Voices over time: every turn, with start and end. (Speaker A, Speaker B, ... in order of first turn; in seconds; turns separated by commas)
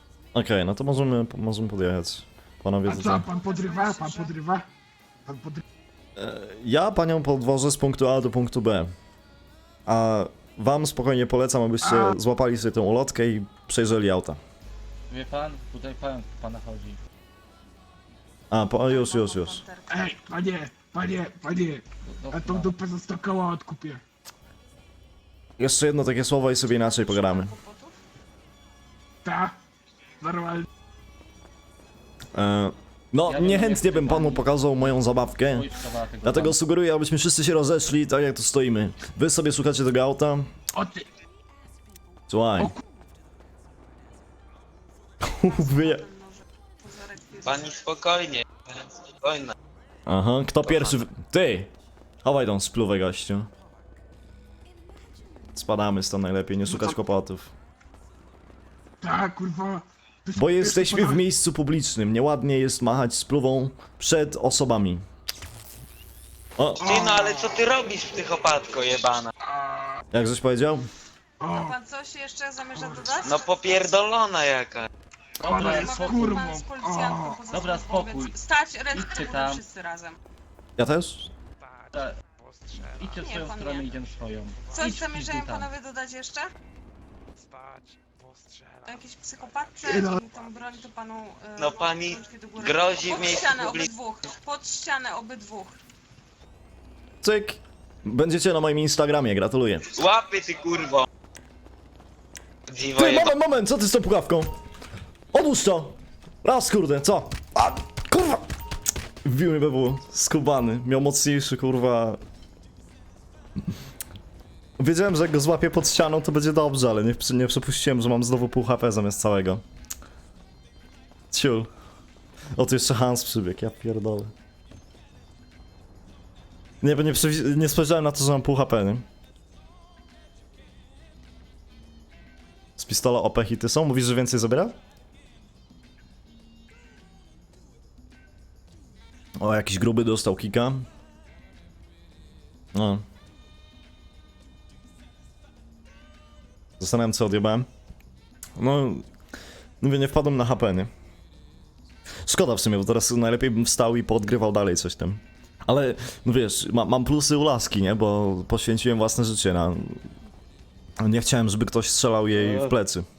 Speaker A: 0.3-3.2, Speaker B: 2.8-4.7, Speaker C: 3.1-4.3, Speaker B: 5.2-5.6, Speaker A: 6.2-8.9, Speaker A: 9.8-14.4, Speaker B: 11.8-12.2, Speaker D: 15.1-17.0, Speaker A: 18.5-19.6, Speaker C: 18.8-20.1, Speaker B: 19.9-24.0, Speaker D: 22.1-22.7, Speaker A: 25.6-27.5, Speaker C: 26.7-28.0, Speaker B: 29.2-29.6, Speaker B: 30.2-30.7, Speaker A: 32.3-35.7, Speaker D: 33.2-34.5, Speaker D: 35.4-36.6, Speaker A: 36.2-40.5, Speaker B: 40.7-41.1, Speaker A: 42.3-42.8, Speaker A: 45.2-46.0, Speaker C: 45.4-47.8, Speaker E: 47.4-49.5, Speaker A: 50.0-51.7, Speaker A: 52.2-53.5, Speaker A: 55.5-57.5, Speaker B: 56.7-56.9, Speaker B: 59.0-61.2, Speaker A: 60.4-65.0, Speaker A: 66.6-66.8, Speaker B: 66.8-67.5, Speaker E: 66.8-69.3, Speaker B: 69.4-70.0, Speaker A: 70.1-70.9, Speaker B: 71.4-71.8, Speaker C: 71.6-73.6, Speaker B: 72.7-73.2, Speaker E: 73.2-74.9, Speaker D: 75.4-76.7, Speaker B: 75.4-77.4, Speaker C: 75.5-80.2, Speaker D: 77.5-78.3, Speaker D: 78.9-79.6, Speaker A: 80.8-81.3, Speaker F: 81.7-83.1, Speaker D: 81.9-82.2, Speaker D: 82.9-85.7, Speaker C: 83.0-84.0, Speaker C: 84.7-86.5, Speaker F: 87.4-90.9, Speaker C: 88.8-95.8, Speaker B: 89.8-90.2, Speaker E: 91.6-93.9, Speaker A: 97.2-99.9, Speaker E: 99.9-101.0, Speaker E: 102.7-103.3, Speaker A: 103.0-104.5, Speaker A: 105.3-108.5, Speaker A: 109.2-112.2, Speaker A: 114.8-119.6, Speaker A: 121.3-121.7, Speaker A: 122.5-124.3, Speaker A: 126.8-129.0, Speaker A: 132.8-134.8, Speaker A: 139.4-140.8, Speaker A: 142.7-143.0, Speaker A: 146.8-147.7, Speaker A: 148.6-149.1, Speaker A: 149.8-150.9, Speaker A: 152.2-160.1, Speaker A: 161.0-163.1, Speaker D: 162.4-162.7